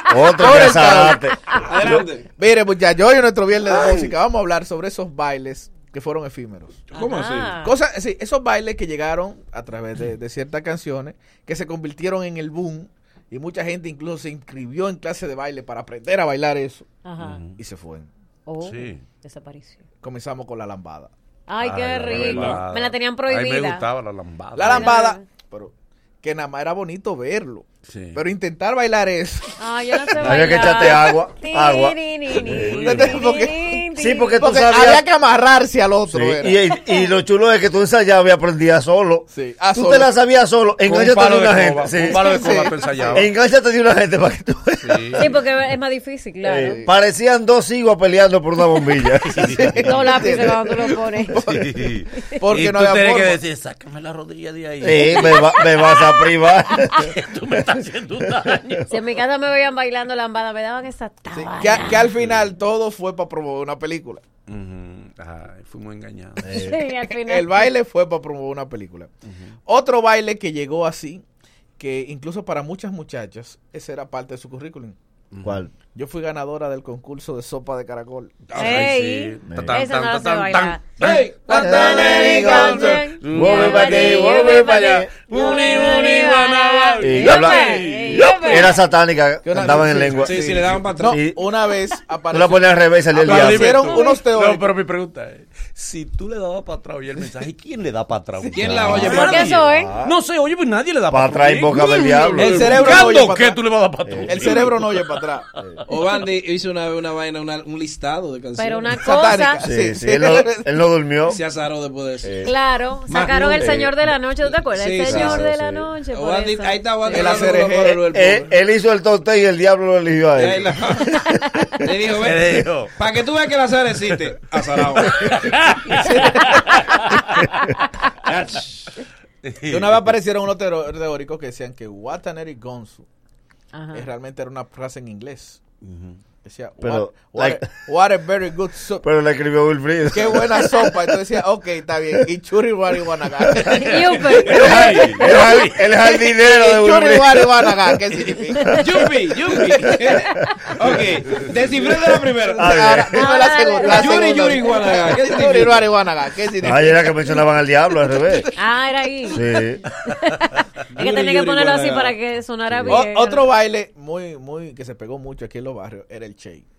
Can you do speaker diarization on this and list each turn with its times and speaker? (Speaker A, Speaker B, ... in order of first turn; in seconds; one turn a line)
Speaker A: 0.1-2.0
Speaker B: 0.4-1.2
Speaker C: 0.5-0.9
Speaker C: 1.6-2.3
Speaker B: 2.3-6.8
Speaker C: 6.9-7.6
Speaker D: 6.9-7.7
Speaker B: 7.6-16.9
Speaker D: 17.0-17.4
Speaker E: 17.2-17.6
Speaker B: 17.6-18.1
Speaker D: 18.5-19.8
Speaker E: 18.6-19.0
Speaker B: 20.0-21.1
Speaker D: 21.5-23.8
Speaker E: 21.6-24.9
Speaker C: 22.1-22.6
Speaker B: 24.6-29.5
Speaker D: 24.6-25.2
Speaker E: 27.9-28.2
Speaker D: 29.6-34.4
Speaker A: 30.2-32.9
Speaker E: 32.6-33.2
Speaker B: 32.8-33.8
Speaker A: 34.0-35.1
Speaker B: 34.4-36.6
Speaker A: 36.1-42.4
Speaker B: 39.3-40.1
Speaker E: 40.9-43.3
Speaker B: 42.2-43.2
Speaker A: 43.1-45.3
Speaker E: 44.8-45.3
Speaker D: 45.2-46.8
Speaker A: 46.5-49.5
Speaker B: 46.7-46.9
Speaker E: 49.3-49.8
Speaker B: 49.5-51.6
Speaker D: 49.9-51.4
Speaker E: 51.4-55.7
Speaker B: 52.4-53.4
Speaker A: 54.8-57.1
Speaker E: 57.0-58.9
Speaker D: 58.9-62.0
Speaker B: 61.3-64.2
Speaker E: 62.0-62.5
Speaker E: 64.5-66.5
Speaker A: 66.5-66.8
Speaker D: 66.5-67.7
Speaker B: 67.1-69.1
Speaker B: 69.7-71.2
Speaker B: 71.8-75.0
Speaker E: 75.3-75.7
Speaker A: 75.4-75.7
Speaker B: 75.9-78.3
Speaker E: 78.5-88.7
Speaker D: 78.6-88.8
Speaker A: 79.5-79.8
Speaker C: 81.0-83.0
Speaker A: 81.5-85.1
Speaker A: 87.0-91.4
Speaker B: 89.4-92.6
Speaker C: 90.1-91.2
Speaker A: 92.3-93.8
Speaker B: 93.1-94.7
Speaker E: 93.2-105.2
Speaker D: 93.9-94.2
Speaker B: 98.4-98.8
Speaker C: 98.5-99.6
Speaker A: 98.7-100.2
Speaker D: 99.1-99.9
Speaker A: 101.1-102.9
Speaker C: 102.4-103.3
Speaker B: 102.5-103.6
Speaker A: 104.1-104.4
Speaker B: 104.2-105.5
Speaker C: 105.9-109.1
Speaker D: 108.6-109.6
Speaker B: 109.0-110.6
Speaker A: 109.6-111.4
Speaker C: 111.2-112.5
Speaker A: 112.2-112.5
Speaker D: 112.5-117.4
Speaker C: 113.1-113.8
Speaker A: 113.6-114.0
Speaker C: 114.6-115.5
Speaker A: 115.1-115.9
Speaker C: 116.1-118.5
Speaker B: 117.1-118.4
Speaker A: 118.1-121.2
Speaker C: 120.4-121.1
Speaker C: 121.8-125.2
Speaker E: 122.2-123.0
Speaker E: 125.1-126.5
Speaker B: 126.0-126.6
Speaker C: 128.3-128.9
Speaker E: 129.4-130.2
Speaker B: 129.7-133.1
Speaker D: 133.7-134.1
Speaker B: 133.9-135.6
Speaker E: 135.8-136.2
Speaker B: 136.4-139.0
Speaker A: 136.8-137.7
Speaker A: 139.0-141.0
Speaker B: 140.1-144.3
Speaker D: 143.8-145.1
Speaker E: 144.5-145.8
Speaker A: 144.5-147.7
Speaker B: 146.1-148.8
Speaker C: 148.8-152.8
Speaker A: 152.6-153.3
Speaker B: 152.6-157.0
Speaker D: 153.2-154.5
Speaker C: 153.9-155.9
Speaker A: 156.6-158.5
Speaker D: 158.6-159.4
Speaker A: 159.3-159.8
Speaker D: 160.1-163.5
Speaker C: 160.9-162.2
Speaker A: 162.7-163.0
Speaker B: 162.9-166.7